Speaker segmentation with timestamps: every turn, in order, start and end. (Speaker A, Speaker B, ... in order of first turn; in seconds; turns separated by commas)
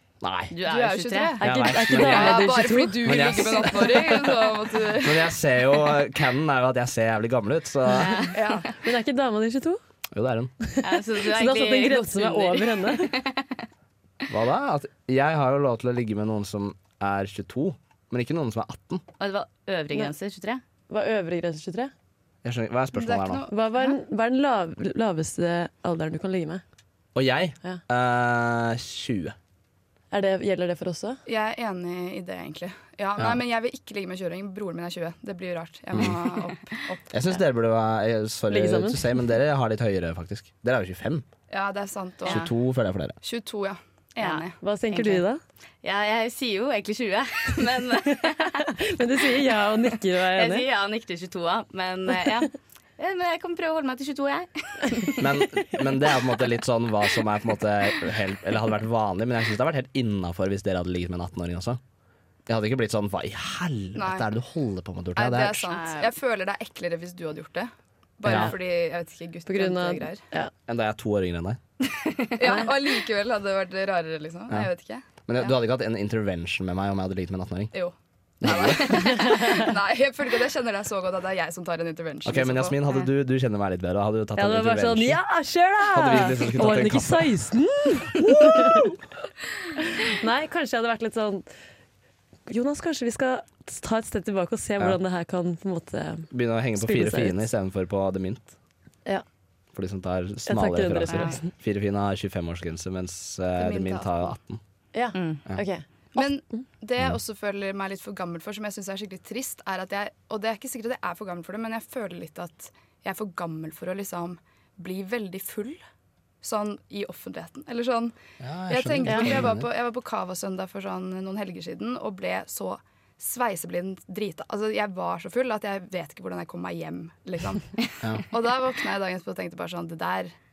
Speaker A: 0.2-0.6, Speaker B: 0.5-1.4, Speaker C: 0.7-5.3, Speaker D: 1.4-3.4, Speaker A: 1.4-8.3, Speaker B: 8.0-8.5, Speaker C: 8.3-8.7, Speaker D: 8.7-9.8, Speaker A: 10.1-10.5, Speaker D: 10.7-13.2, Speaker B: 10.8-13.6, Speaker A: 14.3-19.0, Speaker B: 19.2-20.6, Speaker D: 20.9-21.9, Speaker A: 22.4-23.5, Speaker C: 22.9-24.0, Speaker D: 23.5-26.6, Speaker A: 27.1-29.4, Speaker D: 30.1-31.2, Speaker C: 31.3-37.2, Speaker A: 37.1-41.2, Speaker D: 38.5-39.1, Speaker C: 41.5-42.5, Speaker A: 42.3-43.2, Speaker C: 43.2-44.6, Speaker B: 44.2-45.2, Speaker D: 44.6-45.4, Speaker B: 45.8-48.7, Speaker D: 48.1-50.7, Speaker B: 50.2-55.2, Speaker A: 55.2-61.8, Speaker A: 62.5-65.7, Speaker C: 64.0-64.3, Speaker C: 65.2-70.2, Speaker B: 65.7-66.1, Speaker A: 68.2-68.6, Speaker D: 69.5-70.5, Speaker A: 70.7-71.6, Speaker B: 71.9-72.6, Speaker C: 72.4-75.2, Speaker A: 75.3-77.7, Speaker C: 77.7-82.8, Speaker A: 78.4-79.2, Speaker D: 78.9-79.7, Speaker A: 82.2-85.2, Speaker D: 84.4-88.9, Speaker A: 85.9-87.3, Speaker A: 88.2-88.9, Speaker D: 89.8-91.5, Speaker D: 92.5-97.5, Speaker A: 96.3-98.5, Speaker A: 99.7-104.6, Speaker D: 100.5-101.5, Speaker B: 101.1-101.3, Speaker C: 103.6-104.3, Speaker D: 104.9-106.6, Speaker B: 105.2-105.4, Speaker C: 106.2-115.8, Speaker C: 116.4-118.2, Speaker A: 118.4-119.7, Speaker C: 118.7-130.3, Speaker D: 119.0-119.4